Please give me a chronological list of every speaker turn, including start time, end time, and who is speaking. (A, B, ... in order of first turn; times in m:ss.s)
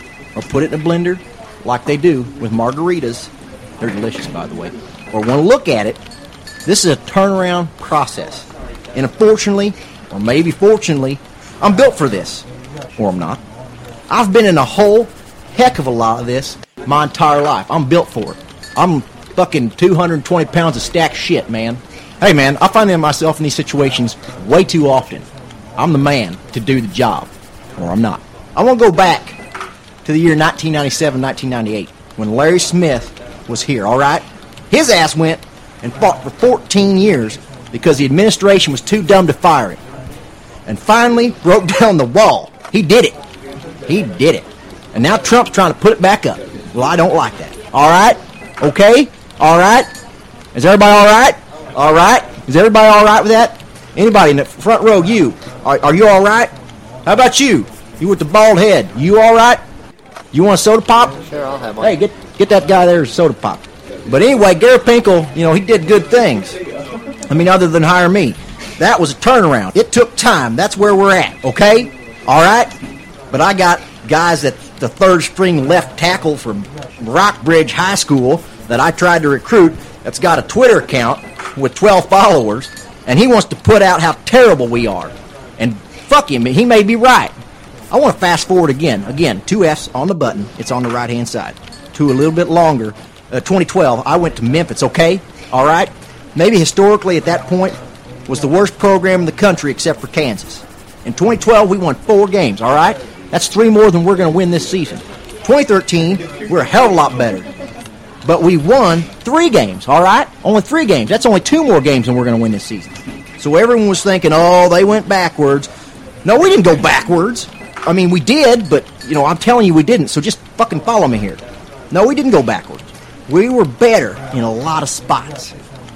0:00.4-0:06.0 A
0:06.6-0:12.4 A
0:13.0-0:13.4 A
0:14.1-0:29.4 A
0:30.0-0:39.8 A
0:40.7-0:43.2 A
0:43.9-0:49.9 A
0:50.5-0:59.6 A
1:00.3-1:06.6 A
1:07.3-1:12.8 A
1:13.3-1:27.4 A
1:27.9-1:47.5 A
1:48.2-1:55.7 A
1:56.2-2:05.6 A